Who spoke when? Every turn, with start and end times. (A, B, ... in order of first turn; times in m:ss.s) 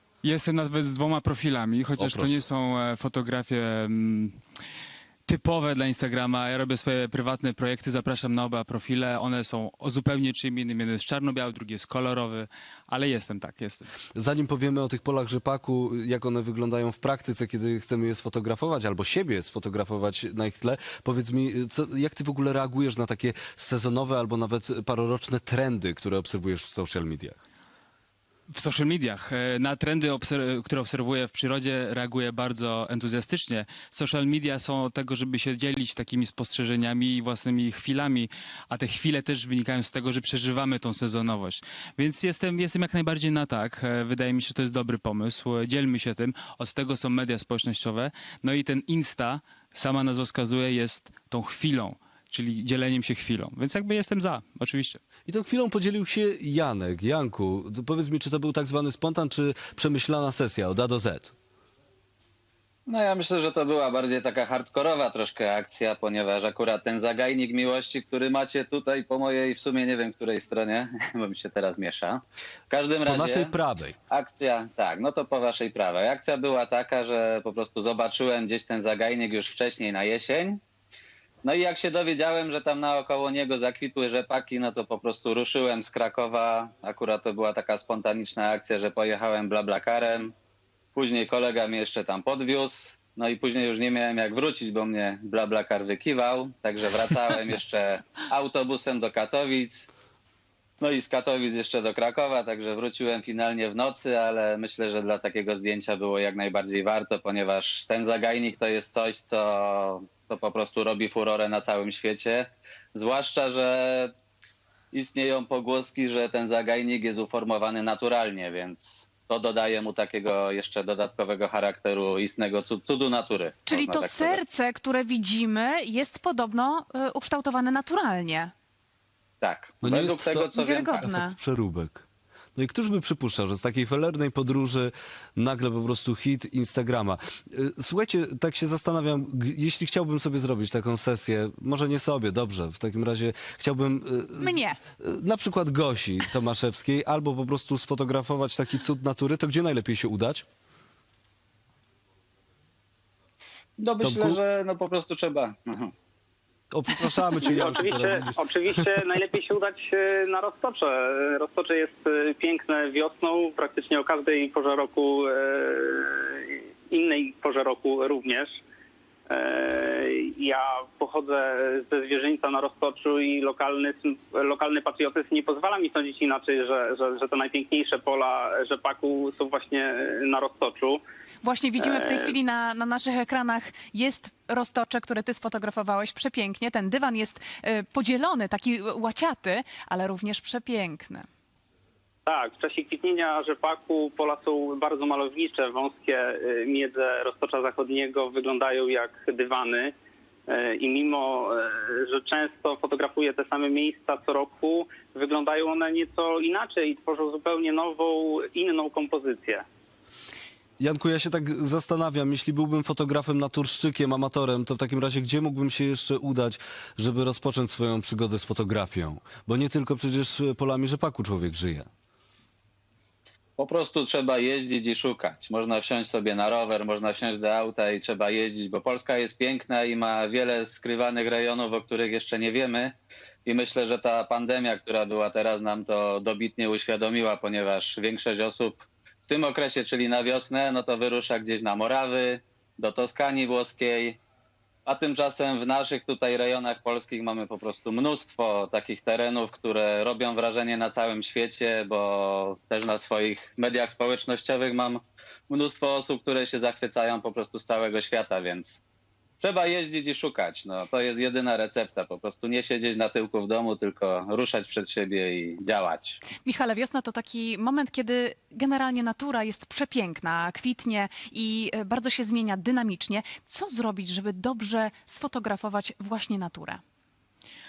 0:00.2-0:04.4 A
0:02.0-0:02.4 B
0:05.3-0:13.9 A
0:14.2-0:27.4 B
0:28.5-0:55.0 A
0:55.3-1:01.4 B
1:02.9-1:13.5 C
1:13.1-1:14.0 B
1:14.1-1:20.6 C
1:21.4-1:30.3 C
1:31.0-1:39.9 C
1:40.8-1:54.1 C
1:54.9-2:04.4 C
2:03.7-2:08.5 D
2:09.4-2:11.1 C
2:09.8-2:12.0 B
2:10.5-2:11.4 D
2:12.6-2:30.4 B
2:24.4-2:24.8 D
2:33.8-2:35.9 C
2:34.0-2:34.4 B
2:36.7-2:38.8 B
2:37.2-2:48.6 E
2:49.3-3:01.0 E
3:01.4-3:11.2 D
3:01.8-3:02.4 E
3:12.3-3:19.9 E
3:20.5-3:29.6 E
3:30.8-3:41.9 B
3:43.6-4:04.2 C
4:04.9-4:18.8 C
4:19.4-4:26.2 C
4:26.4-4:36.8 D